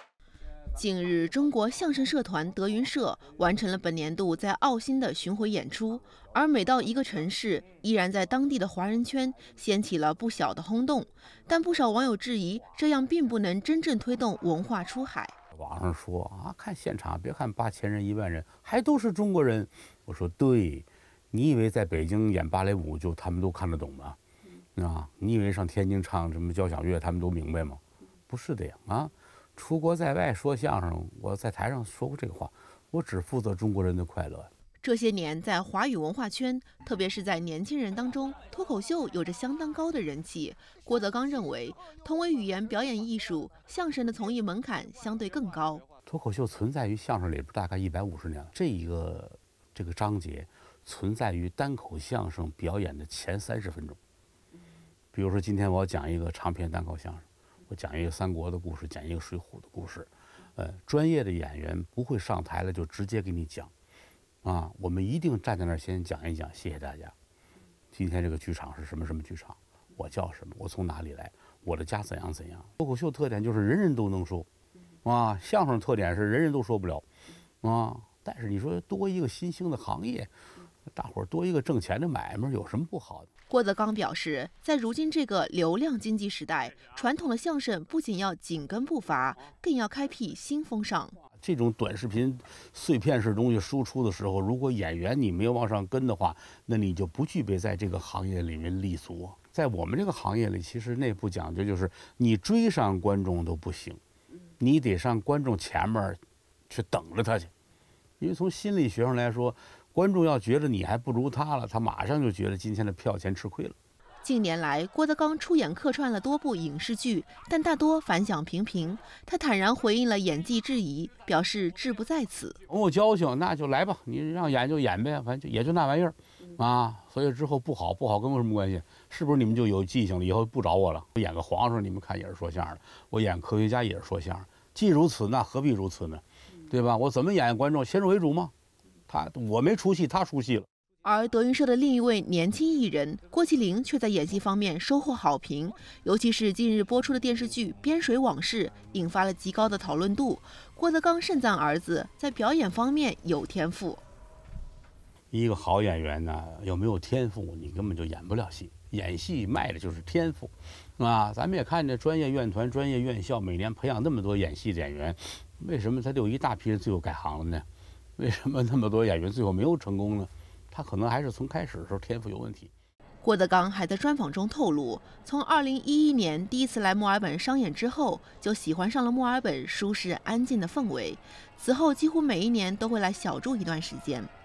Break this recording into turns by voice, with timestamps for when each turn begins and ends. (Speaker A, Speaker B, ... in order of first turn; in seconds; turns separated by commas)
Speaker A: 0.7-15.3, Speaker B: 15.5-24.2, Speaker B: 24.8-34.5, Speaker A: 34.8-45.8, Speaker B: 46.0-54.0, Speaker B: 55.1-63.7, Speaker B: 64.4-67.1, Speaker B: 67.9-74.5, Speaker B: 75.0-77.0, Speaker B: 77.6-80.3, Speaker B: 80.9-83.3, Speaker A: 83.5-91.2, Speaker B: 91.4-104.0, Speaker B: 104.6-107.5, Speaker B: 108.2-113.8, Speaker A: 114.2-122.6, Speaker B: 122.7-138.5, Speaker B: 139.1-140.7, Speaker A: 141.0-154.0, Speaker B: 155.3-167.7, Speaker B: 168.2-172.7, Speaker A: 173.2-184.3